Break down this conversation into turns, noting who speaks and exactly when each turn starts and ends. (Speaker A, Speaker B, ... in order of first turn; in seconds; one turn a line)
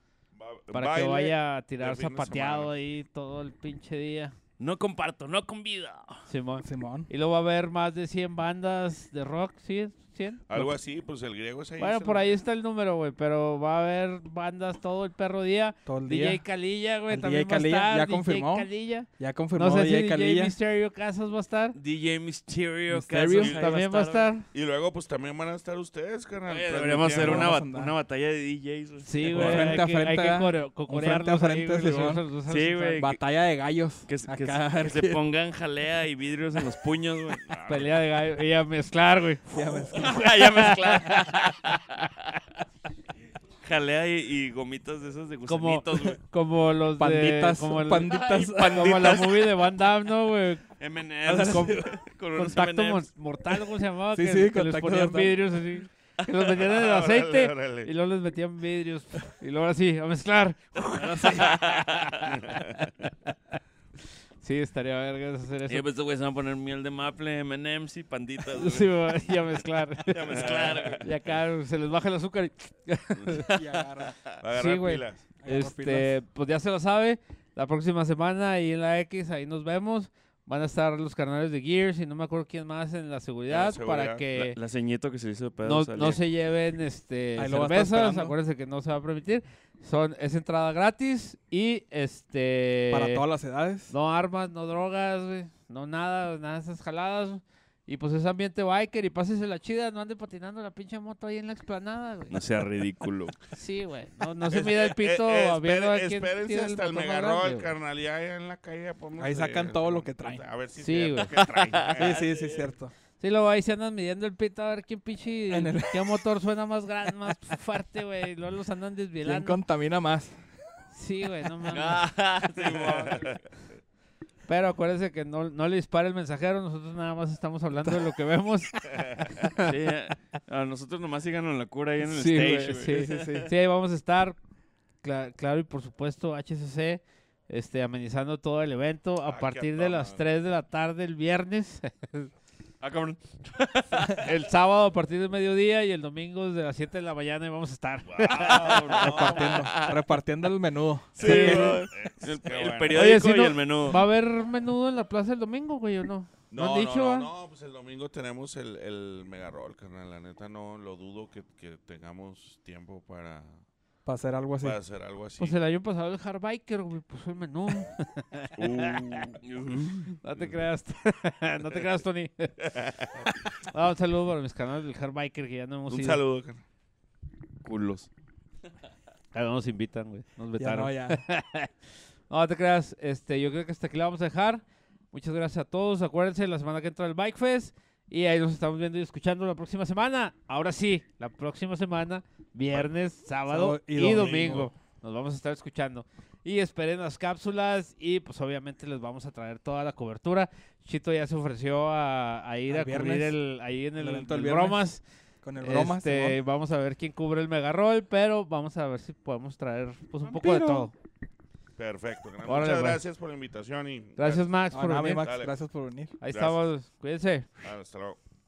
Speaker A: 0.3-2.7
Speaker B: 0.7-4.3
Speaker C: 4.6-6.2
Speaker B: 6.3-10.5
Speaker D: 6.6-7.1
Speaker A: 10.5-12.4
Speaker B: 11.8-21.8
Speaker D: 15.9-16.4
Speaker D: 17.1-20.6
Speaker C: 21.7-24.3
Speaker D: 22.9-23.5
Speaker B: 23.4-24.4
Speaker A: 24.5-27.5
Speaker C: 26.5-29.8
Speaker D: 27.2-27.9
Speaker B: 29.0-33.0
Speaker D: 29.3-32.2
Speaker C: 32.5-33.2
Speaker D: 33.0-35.2
Speaker C: 34.0-37.4
Speaker A: 37.4-38.0
Speaker B: 37.7-41.3
Speaker D: 39.5-40.2
Speaker C: 39.9-42.1
Speaker C: 43.6-46.2
Speaker B: 45.5-50.6
Speaker D: 47.0-49.2
Speaker C: 48.1-49.5
Speaker C: 50.8-53.6
Speaker D: 51.2-51.9
Speaker B: 51.4-62.9
Speaker D: 54.1-55.4
Speaker A: 56.5-57.9
Speaker C: 60.9-62.3
Speaker A: 62.3-62.9
Speaker B: 64.4-65.8
Speaker C: 65.7-69.3
Speaker B: 68.5-73.8
Speaker C: 70.1-71.1
Speaker A: 70.3-71.0
Speaker A: 73.2-73.5
Speaker D: 73.5-74.1
Speaker A: 74.4-75.2
Speaker B: 74.5-84.5
Speaker D: 75.4-76.1
Speaker A: 83.5-84.2
Speaker C: 84.4-86.2
Speaker B: 85.6-93.2
Speaker D: 87.4-88.3
Speaker D: 92.9-93.9
Speaker B: 93.9-102.4
Speaker C: 102.3-103.4
Speaker B: 103.5-107.7
Speaker A: 104.5-112.2
Speaker D: 109.2-110.4
Speaker B: 110.8-111.4
Speaker C: 111.8-112.7
Speaker D: 112.0-112.9
Speaker B: 113.2-119.6
Speaker D: 115.5-116.2
Speaker D: 119.2-120.4
Speaker B: 120.9-122.0
Speaker C: 121.7-123.4
Speaker A: 122.7-123.4
Speaker B: 124.5-128.7
Speaker A: 128.9-129.4
Speaker B: 129.4-129.7
Speaker C: 129.6-133.4
Speaker D: 132.0-133.5
Speaker B: 132.7-134.4
Speaker B: 135.0-142.3
Speaker A: 139.2-140.2
Speaker C: 142.8-144.3
Speaker B: 144.2-149.3
Speaker A: 148.0-149.4
Speaker C: 148.3-150.0
Speaker D: 149.0-151.6
Speaker A: 151.2-153.2
Speaker C: 151.2-154.0
Speaker B: 151.2-151.9
Speaker B: 152.9-157.3
Speaker A: 156.5-163.6
Speaker D: 164.0-164.8
Speaker A: 164.6-165.6
Speaker B: 165.4-169.3
Speaker A: 168.6-169.4
Speaker C: 169.4-170.1
Speaker B: 170.1-172.6
Speaker A: 172.6-173.3
Speaker B: 173.2-176.2
Speaker A: 175.9-176.6
Speaker C: 177.6-178.1
Speaker B: 179.3-181.7
Speaker D: 180.6-181.2
Speaker B: 182.3-205.0
Speaker D: 193.5-194.7
Speaker D: 202.7-203.4
Speaker D: 204.0-204.9
Speaker D: 205.4-206.4
Speaker B: 205.6-210.9
Speaker D: 210.2-210.9
Speaker A: 211.8-214.5
Speaker B: 212.4-213.0
Speaker B: 214.2-215.3
Speaker D: 214.7-216.1
Speaker A: 215.2-215.5
Speaker B: 216.2-217.5
Speaker A: 216.3-216.6
Speaker A: 217.6-218.2